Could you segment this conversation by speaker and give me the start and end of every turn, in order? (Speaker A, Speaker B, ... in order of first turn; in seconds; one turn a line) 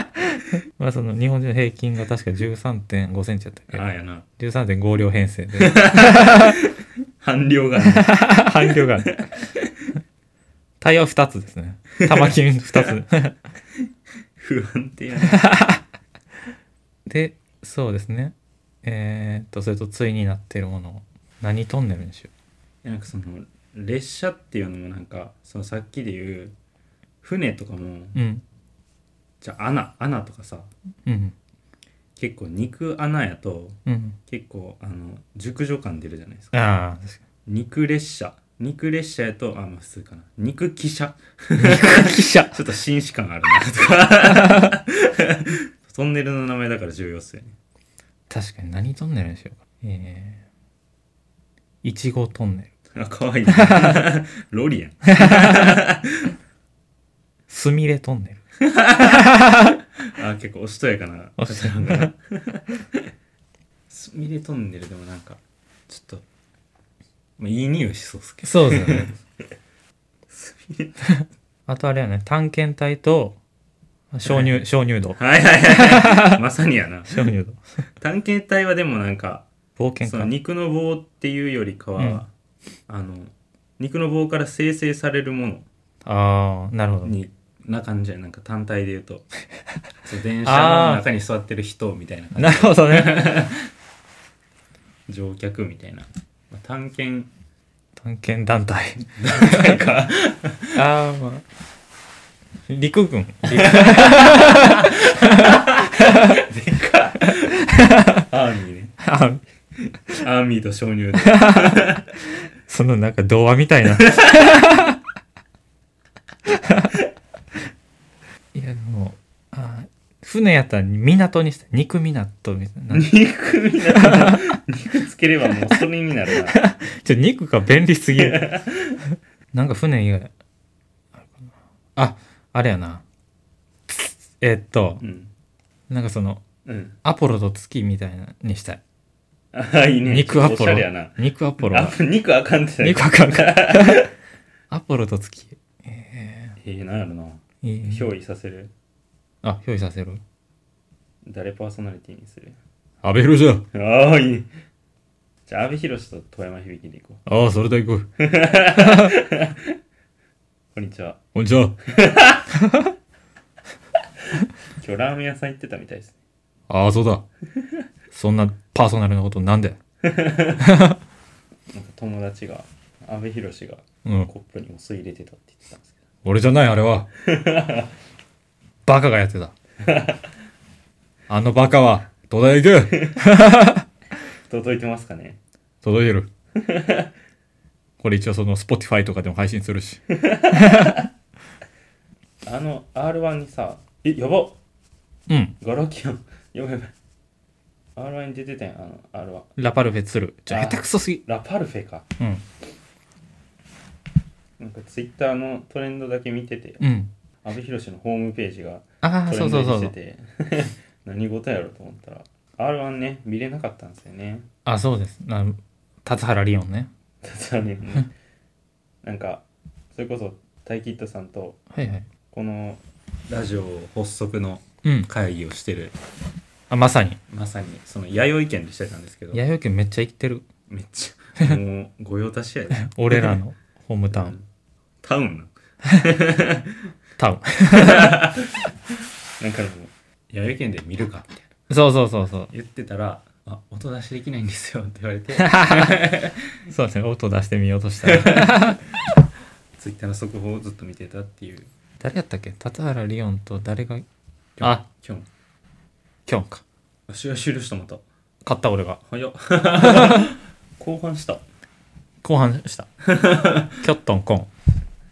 Speaker A: 0.2-3.8
Speaker B: 3.7-4.2
Speaker A: 4.4-6.6
Speaker B: 5.6-9.7
Speaker A: 7.8-9.2
Speaker A: 10.8-13.4
Speaker B: 12.1-12.9
Speaker B: 14.4-15.4
Speaker A: 15.3-15.8
Speaker A: 17.1-22.3
Speaker B: 22.8-26.5
Speaker B: 27.2-28.2
Speaker A: 28.1-28.4
Speaker B: 29.4-30.7
Speaker A: 31.0-31.3
Speaker B: 32.1-36.5
Speaker A: 33.9-34.2
Speaker A: 36.5-37.2
Speaker B: 37.5-47.5
Speaker A: 41.5-42.6
Speaker A: 44.3-44.7
Speaker A: 48.3-50.4
Speaker A: 51.8-52.7
Speaker B: 52.9-56.3
Speaker A: 53.5-54.0
Speaker A: 55.1-55.8
Speaker A: 57.5-58.4
Speaker B: 58.6-63.1
Speaker A: 59.0-59.8
Speaker A: 61.4-62.1
Speaker B: 63.9-66.2
Speaker B: 67.4-69.2
Speaker A: 68.4-69.2
Speaker B: 70.3-71.0
Speaker A: 71.2-73.4
Speaker A: 74.1-76.4
Speaker B: 74.2-74.6
Speaker B: 75.2-77.3
Speaker A: 77.1-77.6
Speaker B: 78.0-79.5
Speaker A: 79.8-80.3
Speaker B: 80.0-82.3
Speaker B: 82.9-85.7
Speaker A: 86.0-87.2
Speaker B: 87.0-89.2
Speaker B: 90.0-93.7
Speaker A: 90.4-91.0
Speaker A: 92.3-93.4
Speaker B: 95.1-97.3
Speaker A: 98.0-99.8
Speaker B: 99.2-100.8
Speaker A: 100.7-101.4
Speaker A: 102.7-106.4
Speaker B: 103.5-107.6
Speaker A: 107.2-108.2
Speaker B: 108.3-109.0
Speaker A: 109.0-109.4
Speaker B: 110.1-112.0
Speaker A: 111.2-112.0
Speaker A: 112.7-115.0
Speaker B: 114.0-114.4
Speaker A: 116.5-117.0
Speaker A: 118.5-123.1
Speaker B: 122.9-126.6
Speaker A: 123.9-124.4
Speaker A: 126.5-128.6
Speaker B: 128.1-129.0
Speaker A: 129.5-130.3
Speaker A: 131.2-133.0
Speaker A: 134.0-135.0
Speaker B: 135.0-135.3
Speaker A: 135.9-136.4
Speaker B: 136.6-136.9
Speaker A: 137.0-138.8
Speaker B: 139.5-144.1
Speaker A: 140.1-142.0
Speaker A: 142.8-144.1
Speaker A: 144.7-146.6
Speaker B: 146.6-148.7
Speaker A: 147.6-148.1
Speaker A: 149.4-150.2
Speaker B: 151.2-152.6
Speaker A: 153.0-153.7
Speaker B: 153.7-154.5
Speaker B: 155.5-157.2
Speaker A: 157.2-158.1
Speaker B: 158.2-159.8
Speaker A: 158.7-159.2
Speaker B: 160.7-161.2
Speaker A: 161.3-161.8
Speaker B: 161.8-162.5
Speaker A: 162.5-162.9
Speaker B: 164.8-166.2
Speaker A: 166.7-167.2
Speaker A: 168.1-169.8
Speaker B: 170.0-170.7
Speaker A: 170.6-171.0
Speaker B: 171.7-176.0
Speaker A: 174.0-174.3
Speaker A: 176.2-177.1
Speaker B: 177.2-177.9
Speaker A: 178.8-179.5
Speaker B: 179.8-180.3
Speaker A: 181.3-183.9
Speaker B: 182.9-183.2
Speaker B: 184.5-185.4
Speaker A: 185.8-186.3
Speaker B: 186.5-187.1
Speaker A: 188.0-191.0
Speaker B: 190.1-191.0
Speaker B: 192.4-194.6
Speaker A: 195.3-195.6
Speaker B: 195.6-196.9
Speaker B: 197.9-199.6
Speaker A: 199.6-201.2
Speaker B: 200.5-202.1
Speaker B: 204.6-206.8
Speaker A: 206.8-207.1
Speaker B: 207.4-214.5
Speaker A: 209.0-209.9
Speaker A: 214.6-216.9
Speaker B: 217.2-218.1
Speaker B: 219.0-221.6
Speaker A: 221.7-222.1
Speaker B: 222.3-225.9
Speaker A: 224.8-225.1
Speaker A: 226.7-227.2
Speaker B: 227.3-229.4
Speaker A: 229.3-230.5
Speaker B: 230.7-233.4
Speaker A: 232.7-234.3
Speaker B: 234.1-234.4
Speaker B: 235.0-236.9
Speaker A: 237.2-238.3
Speaker B: 237.7-238.7
Speaker B: 239.4-241.5
Speaker A: 241.7-242.5
Speaker B: 242.5-246.6
Speaker A: 245.3-248.8
Speaker B: 248.0-248.8
Speaker B: 249.8-251.7
Speaker A: 252.0-254.0
Speaker B: 254.6-255.3
Speaker A: 256.3-256.6
Speaker B: 257.1-258.0
Speaker A: 258.4-259.0
Speaker B: 259.1-261.4
Speaker A: 259.8-260.3
Speaker A: 262.2-262.9
Speaker B: 263.0-263.8
Speaker A: 263.7-264.5